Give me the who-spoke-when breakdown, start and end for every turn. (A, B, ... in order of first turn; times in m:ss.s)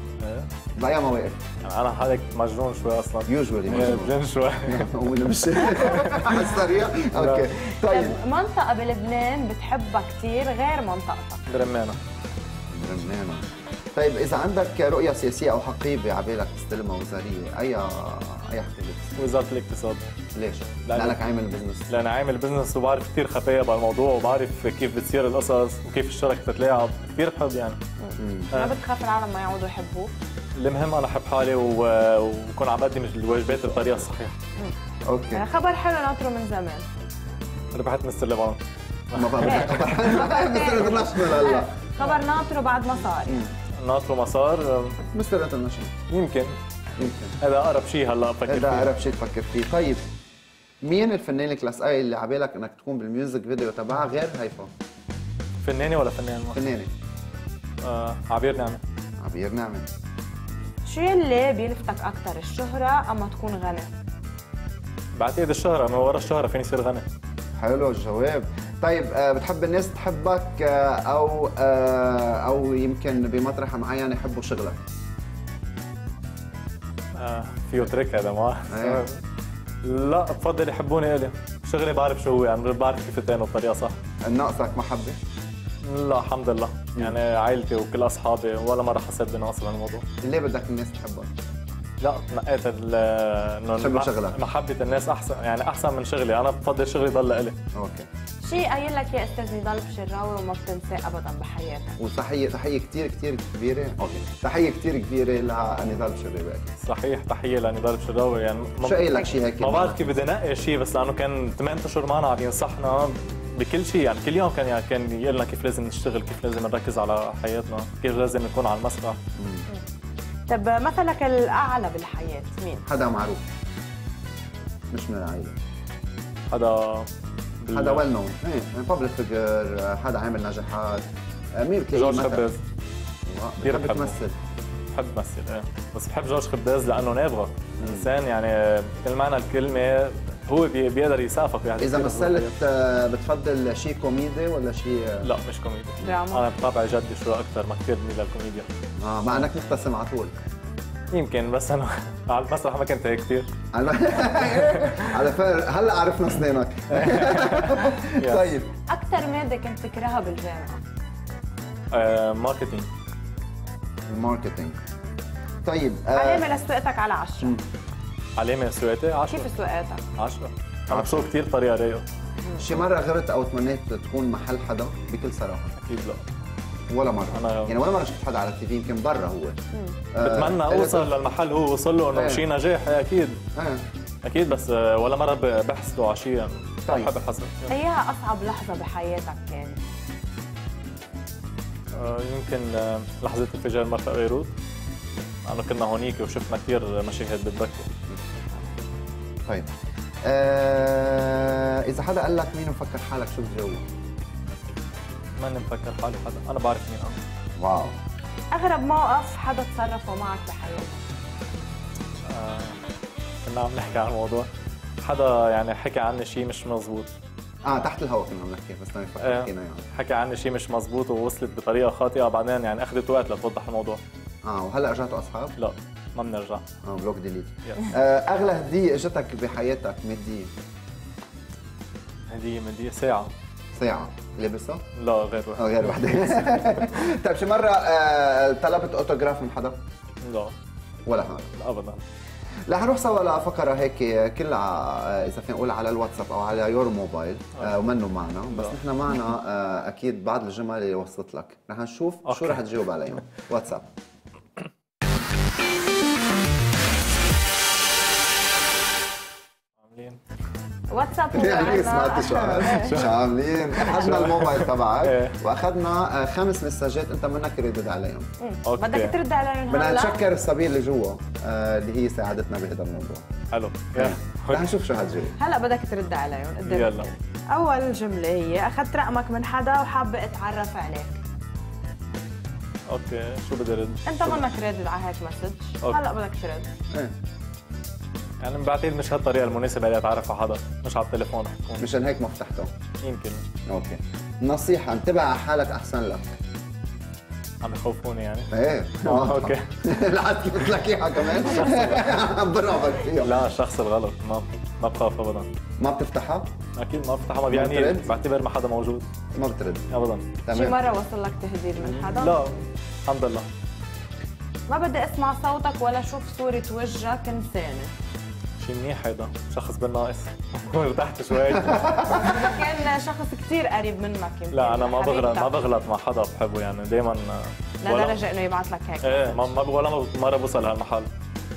0:00.2-0:00.5 A
0:00.8-0:01.4 B
0:01.6-0:06.5 A
0:03.3-0:08.2 B
0:07.2-0:07.5 A
0:07.8-0:11.4 C
0:11.5-0:12.0 A
0:12.7-0:19.3 B
0:19.2-0:20.0 A
0:20.3-0:21.9 B
0:20.8-0:21.2 A
0:21.9-0:27.8 A
0:28.0-0:30.1 C
0:28.2-0:28.5 B
0:30.6-0:34.4 A
0:33.5-0:34.1 B
0:35.1-0:35.4 B
0:35.3-0:36.9 C
0:37.7-0:38.6 A
0:39.1-0:39.8 A
0:39.2-0:41.7 B
0:39.4-0:43.4 C
0:43.8-0:45.0 A
0:45.1-0:46.0 B
0:46.1-0:46.6 A
0:47.0-0:47.4 B
0:47.4-0:48.9 A
0:48.5-0:50.1 B
0:50.8-0:54.7 B
0:55.6-0:56.6 A
0:56.5-0:56.9 B
0:57.8-0:58.8 A
0:59.2-0:59.9 B
1:00.9-1:03.9 C
1:05.2-1:07.1 A
1:07.6-1:14.8 B
1:17.2-1:19.2 A
1:18.7-1:19.0 B
1:19.8-1:24.0 A
1:24.2-1:25.2 B
1:25.8-1:30.0 A
1:30.2-1:31.3 B
1:32.0-1:37.6 A
1:33.8-1:34.4 B
1:37.7-1:38.1 B
1:38.4-1:42.0 C
1:42.0-1:46.7 B
1:46.8-1:59.2 A
1:48.8-1:50.2 B
1:59.4-1:59.7 B
2:00.5-2:02.9 C
2:02.9-2:03.4 B
2:04.9-2:05.6 B
2:06.5-2:07.1 A
2:07.6-2:08.1 A
2:07.7-2:12.4 B
2:11.9-2:12.6 A
2:13.2-2:14.4 B
2:13.6-2:14.2 A
2:14.9-2:22.5 A
2:17.8-2:18.1 B
2:21.8-2:25.3 B
2:25.2-2:28.7 A
2:26.0-2:26.5 C
2:29.0-2:30.3 B
2:31.1-2:33.5 A
2:33.7-2:38.7 B
2:34.4-2:35.1 A
2:36.9-2:38.6 A
2:38.9-2:40.8 C
2:41.9-2:42.9 A
2:44.1-2:44.8 B
2:45.6-2:46.5 B
2:46.2-2:47.6 C
2:48.4-2:49.5 A
2:49.3-2:50.1 C
2:50.2-2:52.0 A
2:50.9-2:51.3 B
2:52.6-2:55.7 B
2:55.8-2:56.2 A
2:56.9-2:59.6 B
2:57.3-2:57.8 A
3:00.1-3:01.1 B
3:00.2-3:03.4 A
3:02.2-3:02.4 B
3:03.6-3:03.9 B
3:04.2-3:07.7 A
3:06.9-3:07.1 B
3:07.7-3:09.8 C
3:11.9-3:14.5 A
3:15.4-3:17.9 A
3:20.2-3:23.9 B
3:25.4-3:27.2 A
3:27.6-3:28.0 B
3:28.5-3:31.0 C
3:32.3-3:32.8 A
3:33.4-3:34.5 A
3:35.0-3:37.1 A
3:37.6-3:39.9 B
3:39.2-3:44.0 A
3:44.4-3:45.6 B
3:45.6-3:46.6 A
3:46.8-3:50.5 B
3:47.6-3:48.0 A
3:52.3-3:53.3 A
3:53.8-3:54.9 B
3:55.0-3:56.8 A
3:55.6-3:59.8 B
4:00.2-4:00.6 A
4:01.1-4:01.5 B
4:01.6-4:02.0 A
4:02.7-4:13.9 B
4:12.2-4:12.6 A
4:19.8-4:20.2 A
4:20.9-4:23.1 C
4:21.3-4:28.3 B
4:22.6-4:23.1 A
4:23.7-4:25.4 A
4:28.4-4:30.2 C
4:28.6-4:29.2 A
4:29.7-4:33.3 B
4:33.5-4:34.7 A
4:34.0-4:35.4 B
4:35.4-4:41.2 C
4:36.7-4:37.1 A
4:42.9-4:44.4 A
4:44.1-4:46.7 C
4:48.4-4:51.9 A
4:51.8-4:52.7 B
4:53.0-4:53.5 A
4:53.7-4:56.4 B
4:57.6-4:58.5 A
4:58.5-5:03.4 B
4:59.0-4:59.8 A
5:01.3-5:02.2 A
5:03.2-5:05.5 A
5:05.8-5:06.5 B
5:06.8-5:09.1 A
5:07.5-5:08.1 B
5:09.3-5:09.9 B
5:09.9-5:10.3 A
5:10.5-5:10.8 B
5:10.5-5:12.4 C
5:11.8-5:13.5 A
5:14.7-5:17.9 C
5:18.6-5:22.4 A
5:21.5-5:22.4 B
5:22.1-5:25.6 C
5:24.5-5:28.2 A
5:27.8-5:29.6 C
5:29.0-5:31.1 A